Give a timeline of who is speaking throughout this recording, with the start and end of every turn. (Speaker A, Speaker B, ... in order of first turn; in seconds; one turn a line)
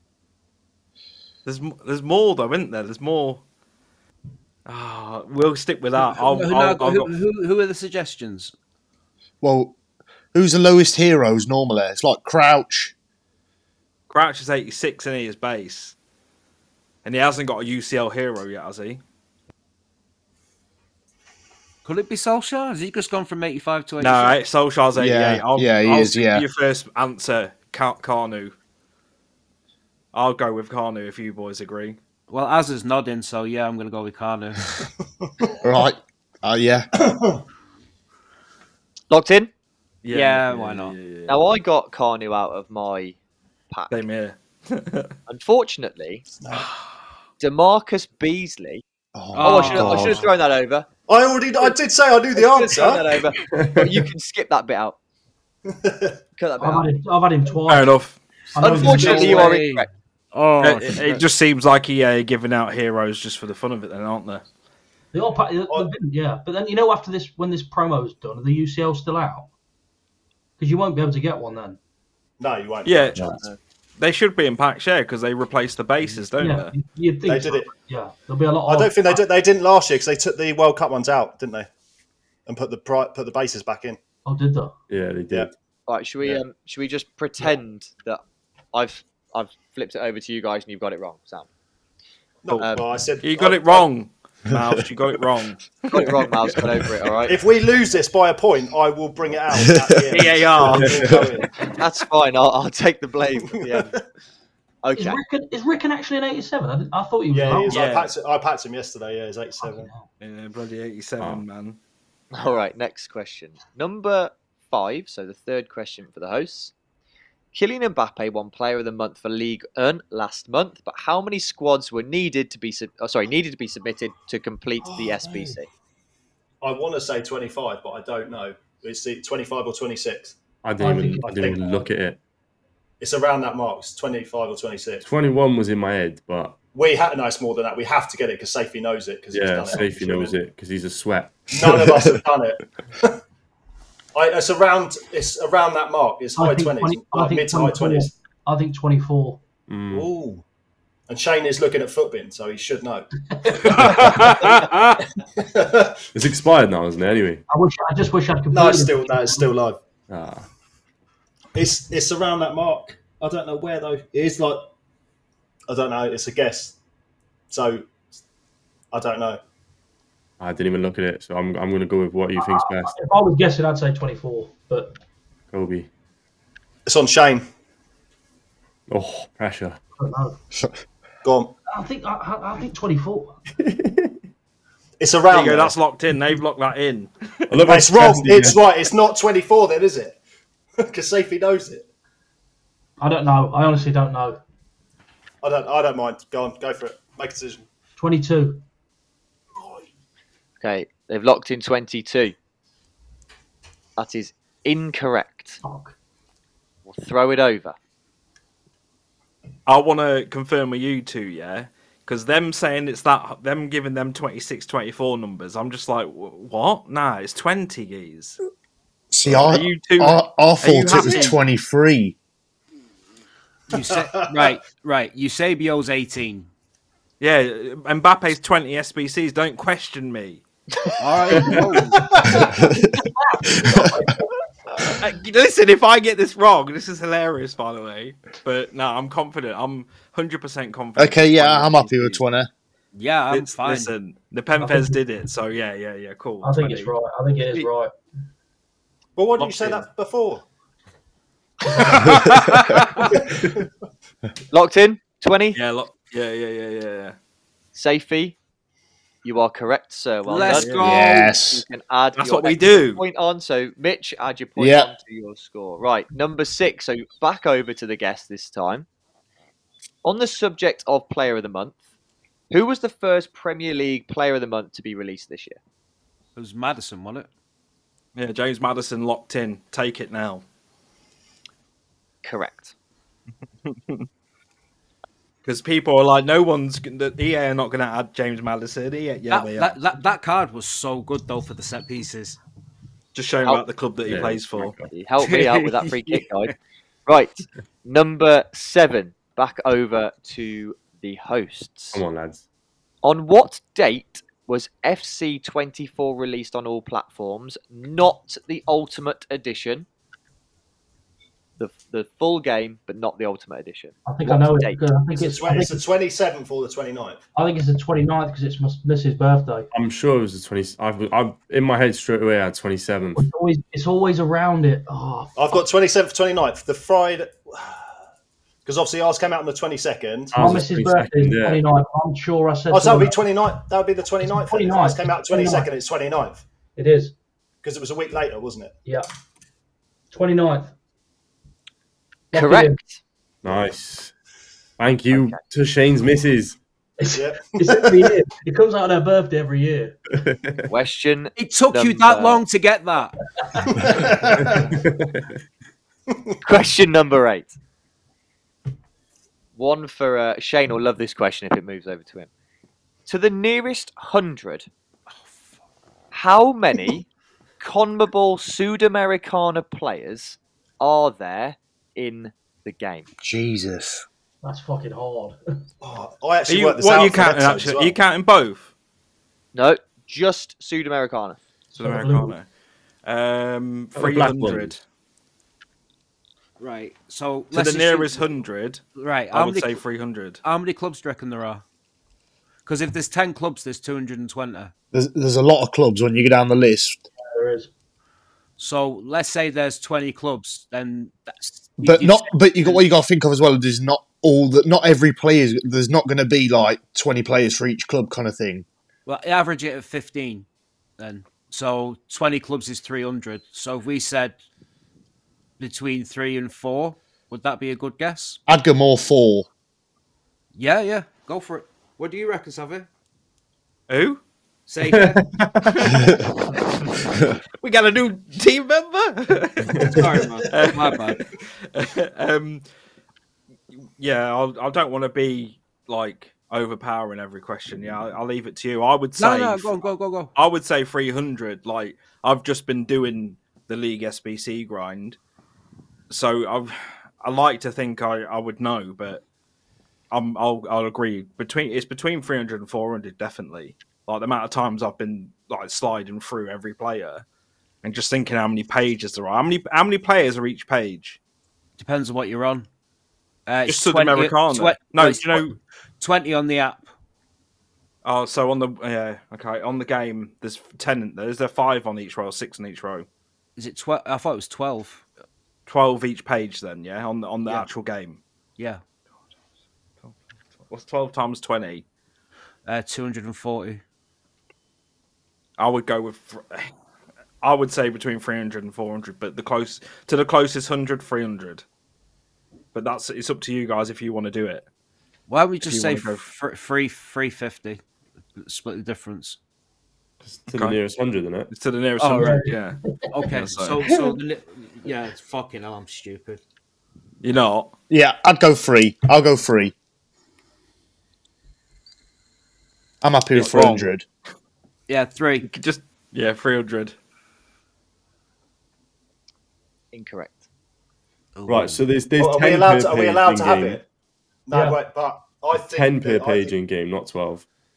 Speaker A: 1.5-3.4
Speaker A: 4.7-7.1
Speaker B: 6.0-8.5
Speaker C: 9.4-9.8
Speaker C: 10.3-12.9
Speaker A: 14.1-15.9
Speaker A: 17.0-19.0
Speaker B: 21.9-24.4
Speaker A: 24.0-28.6
Speaker C: 24.9-26.4
Speaker A: 30.1-32.0
Speaker B: 32.3-34.8
Speaker C: 35.6-36.9
Speaker D: 37.0-37.4
Speaker E: 39.1-39.5
Speaker A: 40.0-41.4
Speaker B: 40.1-41.0
Speaker E: 41.3-43.2
Speaker E: 43.7-44.0
Speaker A: 43.9-45.1
Speaker E: 45.3-46.2
Speaker D: 46.3-46.7
Speaker A: 46.5-46.9
Speaker E: 47.4-48.8
Speaker C: 49.1-50.3
Speaker B: 49.3-50.2
Speaker E: 49.4-50.9
Speaker D: 51.1-53.1
Speaker E: 52.3-55.0
Speaker F: 53.5-53.9
Speaker D: 55.7-56.2
Speaker E: 56.4-56.9
Speaker G: 56.6-58.0
Speaker A: 57.7-58.2
Speaker G: 58.5-59.5
Speaker E: 58.6-59.9
Speaker B: 58.7-61.2
Speaker D: 59.0-59.4
Speaker A: 60.6-64.4
Speaker G: 65.1-69.5
Speaker G: 70.6-71.8
Speaker D: 72.4-73.3
Speaker A: 72.8-73.4
Speaker A: 74.0-76.7
Speaker G: 76.4-79.2
Speaker D: 77.3-77.7
Speaker D: 78.7-81.7
Speaker D: 82.5-84.0
Speaker G: 84.3-84.7
Speaker F: 84.9-85.5
Speaker E: 85.9-88.2
Speaker E: 88.7-91.5
Speaker D: 92.4-93.9
Speaker A: 93.2-96.6
Speaker E: 95.9-97.4
Speaker D: 97.3-101.5
Speaker A: 100.1-101.1
Speaker E: 101.8-103.9
Speaker D: 103.7-104.0
Speaker E: 104.8-105.2
Speaker G: 105.0-107.8
Speaker D: 107.3-109.9
Speaker A: 107.7-108.1
Speaker G: 109.6-110.1
Speaker A: 110.2-111.8
Speaker F: 111.2-111.5
Speaker E: 112.3-116.7
Speaker E: 117.5-125.7
Speaker D: 124.8-125.5
Speaker D: 126.6-130.4
Speaker F: 130.6-132.2
Speaker G: 130.8-131.6
Speaker D: 131.2-131.9
Speaker D: 133.0-135.1
Speaker F: 135.0-136.6
Speaker D: 136.7-140.4
Speaker F: 139.3-141.5
Speaker D: 141.5-143.2
Speaker D: 144.2-148.1
Speaker G: 146.4-149.4
Speaker F: 149.7-150.1
Speaker D: 149.9-150.4
Speaker D: 151.1-153.1
Speaker G: 153.3-154.4
Speaker D: 153.6-154.6
Speaker A: 153.7-154.9
Speaker D: 155.4-156.1
Speaker F: 156.2-157.4
Speaker G: 157.5-159.5
Speaker D: 158.5-159.8
Speaker F: 160.1-160.5
Speaker D: 161.6-164.7
Speaker D: 165.7-166.8
Speaker D: 167.5-167.9
Speaker D: 168.9-169.4
Speaker F: 170.4-172.9
Speaker G: 172.4-175.0
Speaker F: 175.5-175.9
Speaker D: 176.9-177.4
Speaker F: 178.9-179.8
Speaker G: 180.0-180.4
Speaker D: 181.2-181.5
Speaker G: 181.7-183.4
Speaker F: 183.6-184.2
Speaker D: 185.0-185.7
Speaker A: 185.3-187.1
Speaker F: 187.5-188.6
Speaker D: 187.6-190.2
Speaker D: 190.8-191.9
Speaker G: 193.0-194.4
Speaker D: 195.4-197.6
Speaker G: 198.0-198.6
Speaker E: 200.6-202.3
Speaker E: 204.0-205.6
Speaker G: 205.6-205.9
Speaker E: 206.9-207.8
Speaker A: 209.7-218.4
Speaker C: 219.1-222.2
Speaker A: 219.2-221.4
Speaker B: 223.7-226.5
Speaker D: 223.7-224.6
Speaker A: 227.2-230.4
Speaker B: 231.0-232.1
Speaker D: 231.4-232.5
Speaker G: 232.3-232.7
Speaker G: 233.2-234.2
Speaker A: 234.9-242.2
Speaker C: 241.0-242.5
Speaker B: 242.9-243.9
Speaker A: 243.3-246.9
Speaker G: 244.6-245.0
Speaker G: 246.4-247.9
Speaker D: 249.2-250.4
Speaker A: 249.4-249.9
Speaker A: 252.1-253.0
Speaker B: 252.2-252.6
Speaker D: 253.0-253.7
Speaker E: 254.5-255.6
Speaker A: 255.6-257.2
Speaker E: 257.8-258.4
Speaker E: 259.2-268.9
Speaker B: 260.3-261.3
Speaker A: 260.4-260.8
Speaker C: 260.8-261.6
Speaker A: 262.2-263.0
Speaker C: 264.6-264.9
Speaker E: 270.0-271.8
Speaker E: 272.5-275.6
Speaker B: 276.4-277.3
Speaker A: 278.2-280.4
Speaker E: 282.2-282.7
Speaker A: 283.7-284.1
Speaker A: 285.4-289.8
Speaker B: 289.3-292.4
Speaker A: 293.1-294.7
Speaker F: 294.1-294.9
Speaker E: 294.9-296.5
Speaker B: 295.2-296.2
Speaker E: 297.1-302.0
Speaker F: 301.9-302.4
Speaker E: 303.0-309.9
Speaker E: 311.6-314.9
Speaker G: 314.1-315.8
Speaker D: 315.1-317.2
Speaker G: 317.4-319.7
Speaker F: 319.7-323.2
Speaker G: 323.2-325.3
Speaker D: 325.4-328.0
Speaker D: 328.6-330.4
Speaker F: 330.3-331.6
Speaker G: 330.4-333.3
Speaker D: 332.7-336.4
Speaker G: 334.2-335.7
Speaker G: 336.8-337.1
Speaker D: 337.6-338.8
Speaker G: 340.1-340.7
Speaker G: 342.3-342.8
Speaker E: 342.3-343.0
Speaker F: 343.4-344.1
Speaker F: 344.8-346.6
Speaker E: 345.1-345.4
Speaker G: 347.0-350.0
Speaker D: 347.1-348.1
Speaker F: 350.1-350.7
Speaker E: 350.7-352.4
Speaker B: 351.4-353.2
Speaker D: 353.8-354.7
Speaker F: 354.5-355.3
Speaker E: 356.4-357.6
Speaker E: 359.6-362.3
Speaker E: 363.1-364.7
Speaker E: 366.1-367.1
Speaker E: 367.6-373.1
Speaker C: 373.2-374.1
Speaker G: 374.4-375.4
Speaker D: 375.8-378.0
Speaker A: 376.5-378.7
Speaker E: 379.5-381.4
Speaker G: 381.7-382.4
Speaker A: 381.8-382.5
Speaker A: 383.0-384.8
Speaker F: 383.9-384.8
Speaker B: 386.6-388.4
Speaker A: 387.5-390.4
Speaker B: 388.9-389.8
Speaker B: 390.4-391.6
Speaker B: 392.7-394.7
Speaker C: 394.9-397.1
Speaker G: 397.2-397.7
Speaker B: 398.6-402.9
Speaker C: 401.8-408.7
Speaker B: 409.1-410.5
Speaker B: 411.0-414.4
Speaker B: 415.6-418.4
Speaker C: 418.5-419.5
Speaker B: 420.6-422.9
Speaker A: 423.9-424.2
Speaker B: 424.7-425.3
Speaker F: 424.9-426.0
Speaker A: 425.7-426.0
Speaker A: 427.6-429.9
Speaker F: 429.6-430.0
Speaker B: 429.8-431.2
Speaker A: 430.5-432.6
Speaker A: 433.7-445.2
Speaker B: 439.2-440.3
Speaker A: 446.1-449.2
Speaker A: 450.1-457.2
Speaker A: 457.8-461.2
Speaker B: 461.8-462.7
Speaker B: 463.5-466.9
Speaker A: 463.7-465.6
Speaker A: 468.0-473.1
Speaker B: 473.6-475.0
Speaker A: 475.7-478.2
Speaker A: 480.7-481.9
Speaker B: 482.7-483.8
Speaker A: 485.6-486.7
Speaker A: 487.4-491.6
Speaker A: 492.7-494.7
Speaker B: 495.3-497.8
Speaker A: 495.6-496.3
Speaker B: 498.4-499.4
Speaker F: 500.2-501.5
Speaker A: 500.5-500.8
Speaker A: 501.5-503.9
Speaker B: 502.0-502.4
Speaker G: 502.1-503.2
Speaker B: 503.1-506.4
Speaker A: 507.2-507.7
Speaker C: 507.9-509.7
Speaker C: 513.0-514.0
Speaker A: 513.5-513.8
Speaker B: 514.9-515.5
Speaker A: 515.4-517.0
Speaker E: 519.9-520.5
Speaker B: 521.4-521.8
Speaker F: 521.5-523.8
Speaker D: 522.2-523.8
Speaker D: 524.5-526.5
Speaker G: 524.5-524.8
Speaker F: 525.5-527.5